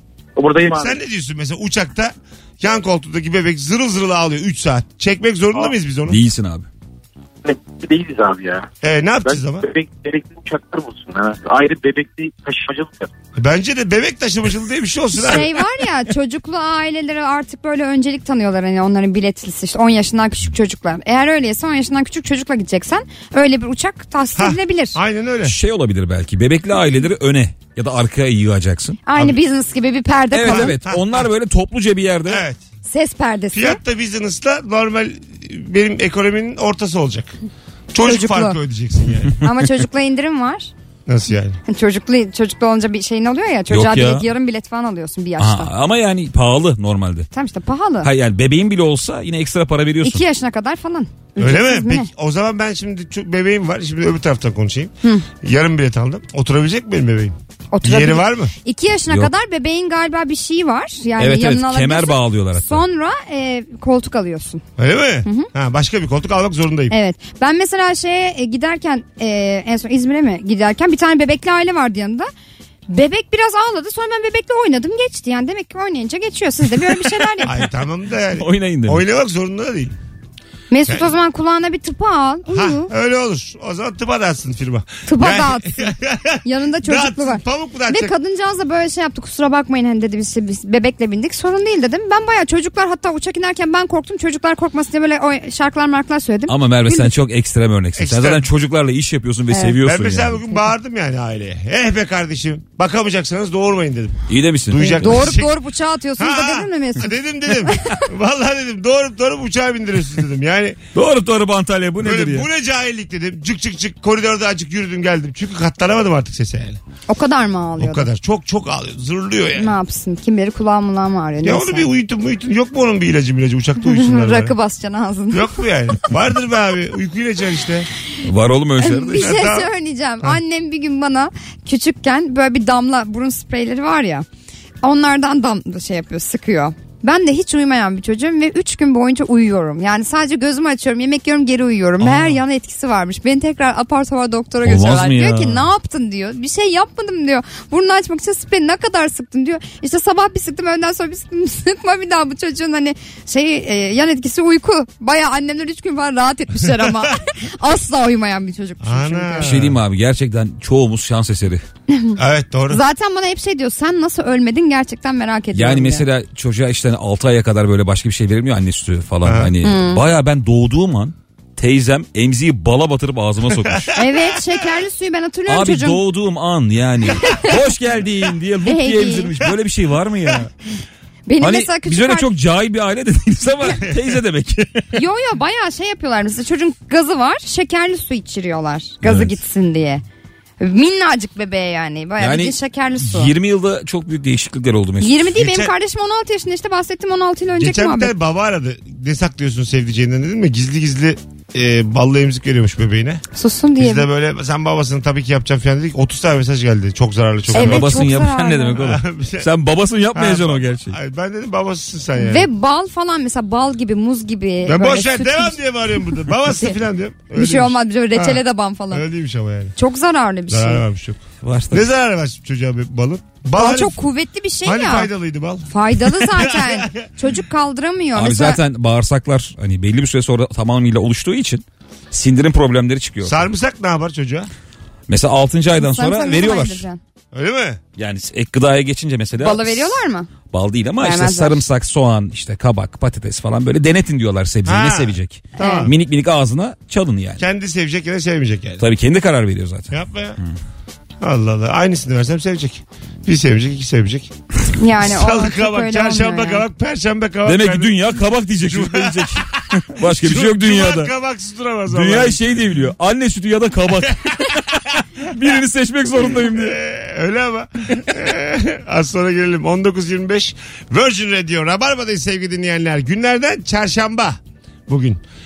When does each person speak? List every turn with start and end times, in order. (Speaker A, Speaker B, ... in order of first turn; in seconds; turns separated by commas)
Speaker A: 0.4-1.0, Speaker B: 0.7-6.2, Speaker C: 6.1-6.7, Speaker A: 7.4-8.7, Speaker B: 8.8-9.7, Speaker A: 9.2-13.1, Speaker B: 13.4-15.5, Speaker D: 15.2-25.0, Speaker B: 24.4-25.6, Speaker C: 25.4-29.0, Speaker D: 29.1-30.8, Speaker C: 30.3-32.4, Speaker B: 30.4-31.3, Speaker B: 32.3-32.6, Speaker D: 32.9-33.8, Speaker B: 33.5-37.4, Speaker B: 37.9-39.4, Speaker D: 38.0-38.6, Speaker D: 39.4-40.7, Speaker B: 41.1-41.6, Speaker D: 41.7-45.7, Speaker C: 43.7-44.3, Speaker C: 45.4-47.3, Speaker D: 47.3-48.1, Speaker C: 48.0-50.2, Speaker D: 50.0-52.1, Speaker B: 51.4-58.5, Speaker D: 57.7-64.6, Speaker C: 61.2-62.8, Speaker B: 64.8-67.0, Speaker D: 65.2-65.5, Speaker D: 66.9-72.3, Speaker D: 72.9-77.6, Speaker B: 77.4-79.9, Speaker C: 78.3-79.0, Speaker D: 80.7-82.9, Speaker B: 82.5-88.1, Speaker D: 85.1-97.1, Speaker C: 96.5-100.4, Speaker B: 98.0-98.5, Speaker D: 99.5-99.8, Speaker B: 99.8-105.5, Speaker C: 104.3-105.4, Speaker D: 104.8-108.0, Speaker B: 106.2-110.8, Speaker C: 111.0-112.5, Speaker B: 112.0-116.8, Speaker D: 117.1-118.1, Speaker B: 117.8-119.8, Speaker D: 119.5-121.9, Speaker B: 121.4-124.5, Speaker D: 123.8-125.6, Speaker B: 125.3-127.9, Speaker C: 128.2-129.5, Speaker D: 128.8-134.3, Speaker B: 129.2-129.7, Speaker D: 134.8-159.5, Speaker B: 142.0-142.4, Speaker C: 144.6-145.7, Speaker B: 158.8-159.8, Speaker C: 159.4-161.6, Speaker D: 161.9-166.1, Speaker B: 162.2-162.8, Speaker C: 165.5-174.0, Speaker B: 169.2-169.5, Speaker D: 169.6-170.0, Speaker B: 173.6-173.8, Speaker D: 174.0-176.0, Speaker C: 175.5-180.5, Speaker D: 177.2-177.6, Speaker D: 178.7-179.3, Speaker D: 181.3-182.3, Speaker C: 181.4-184.8, Speaker D: 184.9-190.0, Speaker C: 189.0-189.3, Speaker D: 190.6-193.3, Speaker C: 192.2-195.2, Speaker D: 195.0-198.1, Speaker B: 195.4-195.7, Speaker B: 197.5-203.2, Speaker D: 203.3-204.1, Speaker B: 203.8-208.0, Speaker C: 207.5-210.9, Speaker D: 207.5-208.9, Speaker B: 208.8-209.5, Speaker B: 210.1-212.5, Speaker D: 212.2-215.6, Speaker B: 214.6-219.8, Speaker D: 216.2-216.7, Speaker D: 217.3-219.0, Speaker D: 219.8-220.8, Speaker B: 220.5-224.0, Speaker C: 221.4-221.9, Speaker D: 223.6-225.1, Speaker B: 224.7-227.1, Speaker D: 225.7-228.6, Speaker C: 228.2-233.5, Speaker B: 233.2-234.5, Speaker C: 235.1-236.8, Speaker D: 235.8-237.0, Speaker B: 237.3-237.8, Speaker C: 238.0-240.0, Speaker D: 239.4-240.3, Speaker C: 240.5-247.4, Speaker D: 241.0-241.6, Speaker B: 244.7-245.9, Speaker D: 245.6-245.9, Speaker B: 247.4-248.9, Speaker C: 248.8-250.6, Speaker B: 249.9-250.4, Speaker B: 251.2-254.3, Speaker D: 254.8-256.6, Speaker B: 255.0-262.4, Speaker C: 257.4-261.1, Speaker C: 261.9-264.6, Speaker C: 265.2-266.8, Speaker B: 266.2-275.2